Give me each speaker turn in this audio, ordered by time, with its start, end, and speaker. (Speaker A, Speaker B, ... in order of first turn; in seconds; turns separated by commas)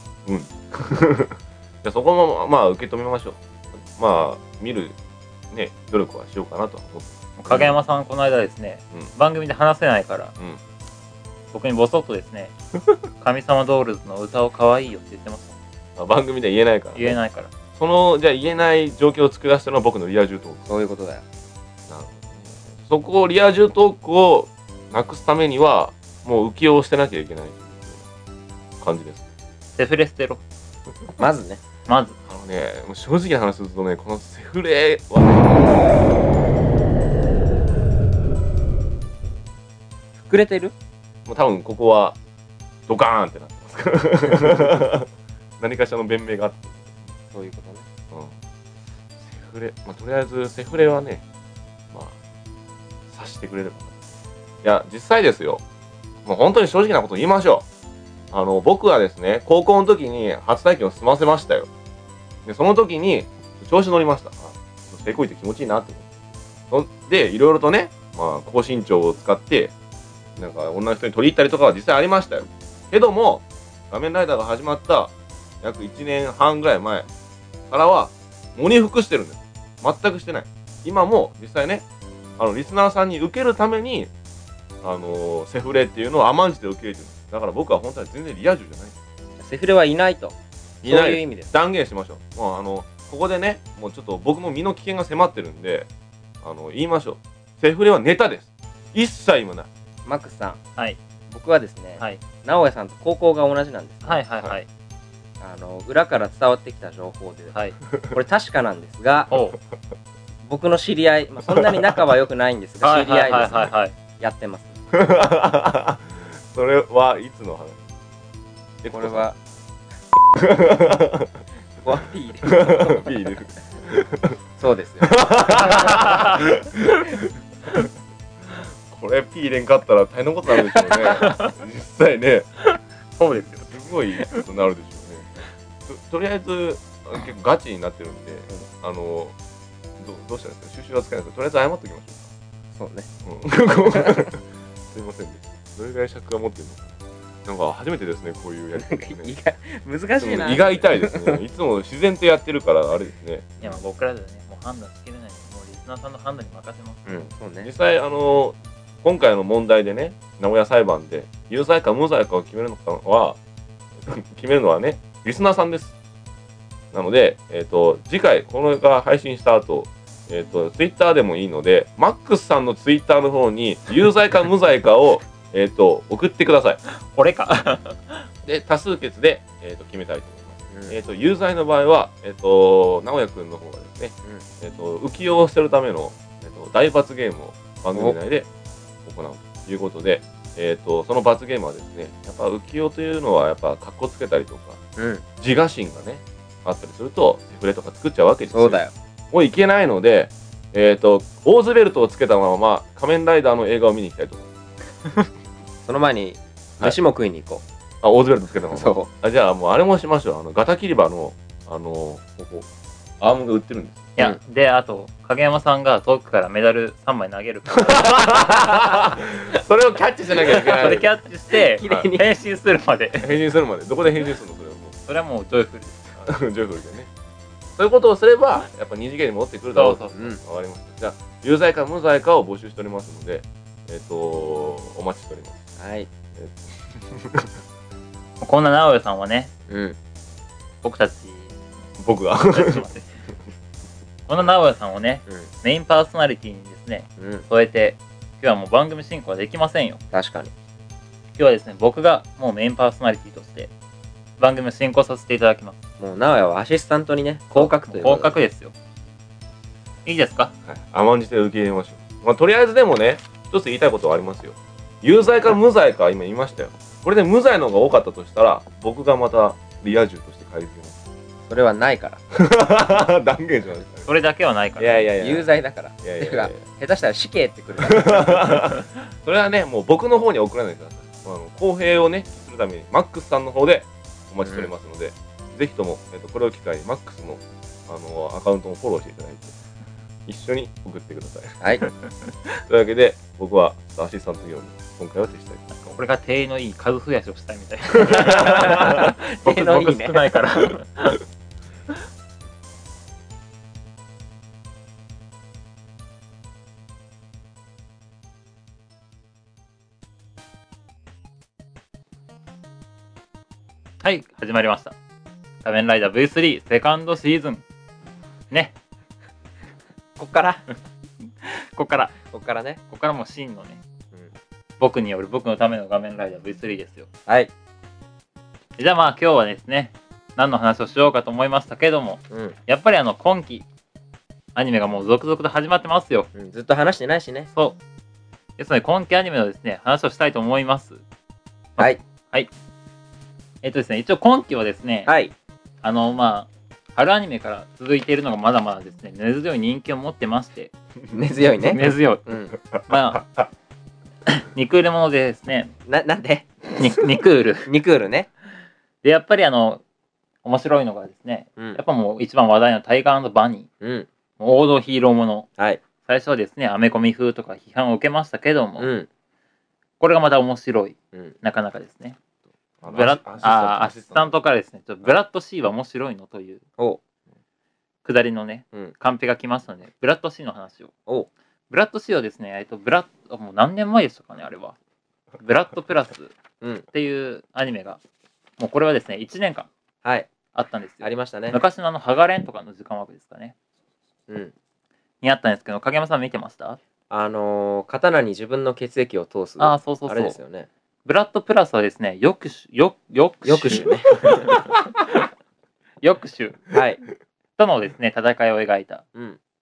Speaker A: 0.2-5.0, Speaker A: 5.5-7.7, Speaker B: 7.4-10.3, Speaker B: 11.5-12.5, Speaker B: 13.2-15.6, Speaker A: 15.9-17.2, Speaker B: 16.9-17.5, Speaker A: 17.7-20.7, Speaker C: 20.7-21.2, Speaker A: 21.9-28.1, Speaker A: 28.8-29.3, Speaker B: 29.8-30.4, Speaker C: 31.2-31.6, Speaker B: 31.9-32.1, Speaker A: 32.3-36.0, Speaker C: 40.2-40.7, Speaker A: 41.2-42.2, Speaker A: 42.9-45.1, Speaker A: 45.6-47.0, Speaker C: 47.3-47.9, Speaker A: 49.2-51.2, Speaker A: 53.1-53.9, Speaker A: 54.6-55.6, Speaker A: 56.2-57.7, Speaker A: 58.3-61.7, Speaker A: 62.4-66.1, Speaker A: 66.7-69.7, Speaker A: 70.4-77.1, Speaker A: 77.7-81.8, Speaker A: 82.4-84.1, Speaker A: 84.8-88.9, Speaker C: 89.4-91.5, Speaker A: 90.8-95.9, Speaker A: 96.4-99.7, Speaker C: 100.0-100.6, Speaker C: 101.3-104.2, Speaker B: 104.0-104.7, Speaker C: 105.4-107.5, Speaker C: 108.1-109.3, Speaker B: 109.3-109.6, Speaker C: 110.4-114.8, Speaker A: 111.5-112.0, Speaker B: 112.8-113.9, Speaker A: 114.9-117.9, Speaker A: 118.8-119.3, Speaker C: 118.9-119.3, Speaker A: 120.2-121.4, Speaker C: 121.8-123.2, Speaker A: 122.4-124.4, Speaker C: 124.6-125.2, Speaker A: 125.0-127.3, Speaker B: 125.6-126.4, Speaker A: 128.9-132.5, Speaker C: 130.8-131.2, Speaker B: 131.1-131.5, Speaker B: 132.7-133.7, Speaker A: 133.6-139.3, Speaker A: 140.0-142.3, Speaker C: 142.7-143.1, Speaker A: 143.2-149.3, Speaker C: 143.9-144.2, Speaker C: 148.8-151.4, Speaker A: 150.2-153.8, Speaker B: 153.6-157.1, Speaker C: 157.1-157.7, Speaker A: 157.6-163.4, Speaker A: 164.0-165.9, Speaker A: 166.9-176.8, Speaker B: 176.9-178.3, Speaker A: 178.4-188.5, Speaker C: 180.7-181.0, Speaker A: 189.0-194.8, Speaker C: 195.0-195.2, Speaker A: 195.4-204.5, Speaker C: 198.5-198.9, Speaker C: 205.8-207.6, Speaker A: 208.0-212.7, Speaker C: 208.7-209.1, Speaker A: 213.2-214.1, Speaker B: 214.2-218.7, Speaker A: 217.8-221.1, Speaker B: 220.5-223.4, Speaker C: 220.7-221.0, Speaker C: 221.5-222.2, Speaker A: 223.2-225.0, Speaker B: 225.1-226.1, Speaker A: 226.2-227.1, Speaker A: 227.8-235.6, Speaker B: 229.7-230.3, Speaker C: 230.1-230.4, Speaker C: 235.8-236.1, Speaker A: 236.3-237.5, Speaker B: 238.4-239.5, Speaker C: 239.7-240.0, Speaker B: 240.8-241.5, Speaker A: 242.0-242.8, Speaker B: 242.5-243.1, Speaker B: 244.3-250.0, Speaker C: 247.2-247.4, Speaker C: 250.1-250.5, Speaker B: 251.3-253.7, Speaker B: 254.4-255.8, Speaker C: 256.0-258.4, Speaker B: 257.5-258.7, Speaker B: 260.0-260.5, Speaker A: 260.6-271.0, Speaker C: 271.5-272.2, Speaker A: 272.3-274.1, Speaker B: 274.1-275.1, Speaker A: 274.8-275.5, Speaker C: 275.2-278.7, Speaker A: 276.0-276.6, Speaker A: 277.8-289.5, Speaker C: 284.4-284.7, Speaker A: 290.2-291.6, Speaker A: 292.6-296.0, Speaker B: 295.9-301.2, Speaker A: 298.0-299.0, Speaker C: 298.3-300.3, Speaker B: 314.0-314.9, Speaker B: 315.6-317.6, Speaker C: 320.2-320.6, Speaker B: 321.4-322.2, Speaker C: 322.3-322.8, Speaker B: 322.9-323.8, Speaker B: 324.8-327.1, Speaker B: 328.8-333.6, Speaker C: 332.3-332.6, Speaker B: 334.5-336.3, Speaker C: 336.3-337.5, Speaker B: 337.5-337.8, Speaker B: 338.6-341.0, Speaker B: 341.8-342.5, Speaker B: 343.6-345.1, Speaker C: 345.1-345.3, Speaker B: 345.8-350.7, Speaker C: 351.1-352.5, Speaker B: 351.7-352.3, Speaker B: 352.9-353.3, Speaker B: 354.3-355.7, Speaker C: 355.9-356.5, Speaker B: 356.7-357.7, Speaker C: 357.6-358.3, Speaker B: 359.0-359.8, Speaker B: 360.4-363.7, Speaker C: 363.8-364.1, Speaker B: 364.4-365.5, Speaker B: 366.0-368.9, Speaker C: 368.8-369.1, Speaker B: 370.0-372.2, Speaker A: 372.8-374.4, Speaker B: 372.9-376.6, Speaker B: 378.0-380.9, Speaker B: 381.7-384.8, Speaker B: 385.4-386.4, Speaker C: 386.6-386.9, Speaker B: 386.9-388.0, Speaker B: 388.6-389.7, Speaker C: 390.0-390.3, Speaker B: 390.5-393.5, Speaker C: 391.0-391.6, Speaker C: 394.3-394.5, Speaker B: 395.2-396.8, Speaker C: 397.1-400.7, Speaker B: 399.6-400.4, Speaker B: 401.0-405.2, Speaker C: 403.4-404.5, Speaker B: 406.0-406.7, Speaker C: 406.7-407.0, Speaker B: 407.6-409.0